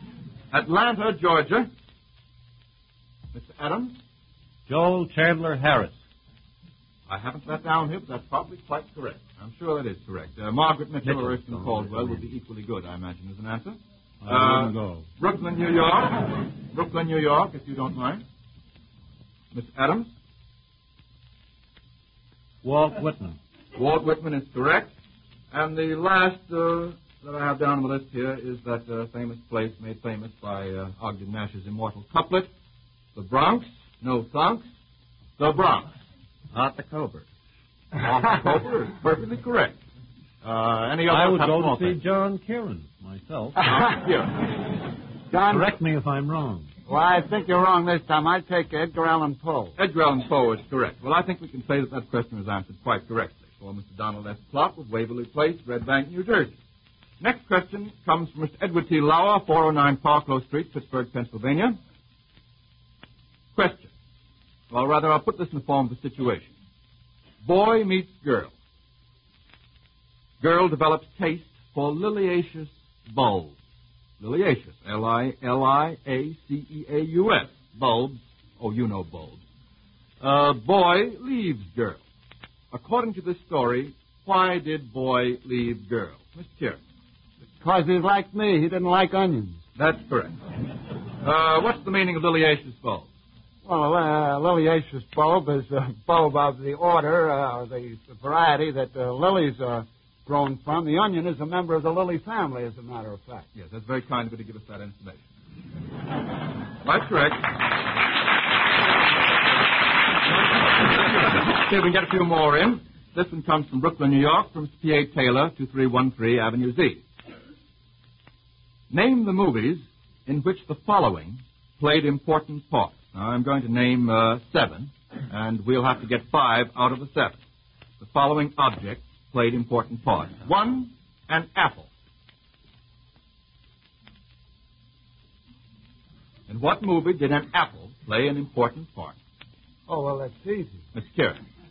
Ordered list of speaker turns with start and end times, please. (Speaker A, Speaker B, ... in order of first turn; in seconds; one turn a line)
Speaker A: 0.5-1.7
Speaker A: 3.3-4.0
Speaker B: 4.7-6.0
Speaker A: 7.1-18.2
Speaker C: 11.0-12.2
Speaker B: 14.2-15.1
Speaker A: 19.5-20.1
Speaker B: 22.6-23.4
Speaker A: 23.8-24.9
Speaker A: 25.5-32.5
Speaker A: 33.1-34.6
Speaker A: 35.4-35.9
Speaker C: 36.5-37.2
Speaker A: 38.0-39.8
Speaker A: 40.4-42.0
Speaker B: 41.1-43.7
Speaker A: 43.6-44.5
Speaker D: 45.3-45.7
Speaker B: 45.5-46.7
Speaker D: 46.9-49.7
Speaker A: 49.8-56.5
Speaker A: 57.2-61.8
Speaker A: 63.5-63.9
Speaker A: 64.7-66.5
Speaker A: 67.4-68.5
Speaker A: 70.4-73.6
Speaker A: 74.2-79.4
Speaker A: 80.2-82.0
Speaker A: 82.7-86.8
Speaker D: 87.6-89.6
Speaker A: 89.8-90.4
Speaker A: 91.2-93.1
Speaker D: 93.6-103.5
Speaker A: 103.5-105.2
Speaker A: 106.8-107.5
Speaker A: 110.3-117.0
Speaker A: 118.9-127.4
Speaker A: 128.0-131.9
Speaker A: 136.5-139.2
Speaker D: 139.9-140.8
Speaker A: 140.9-141.4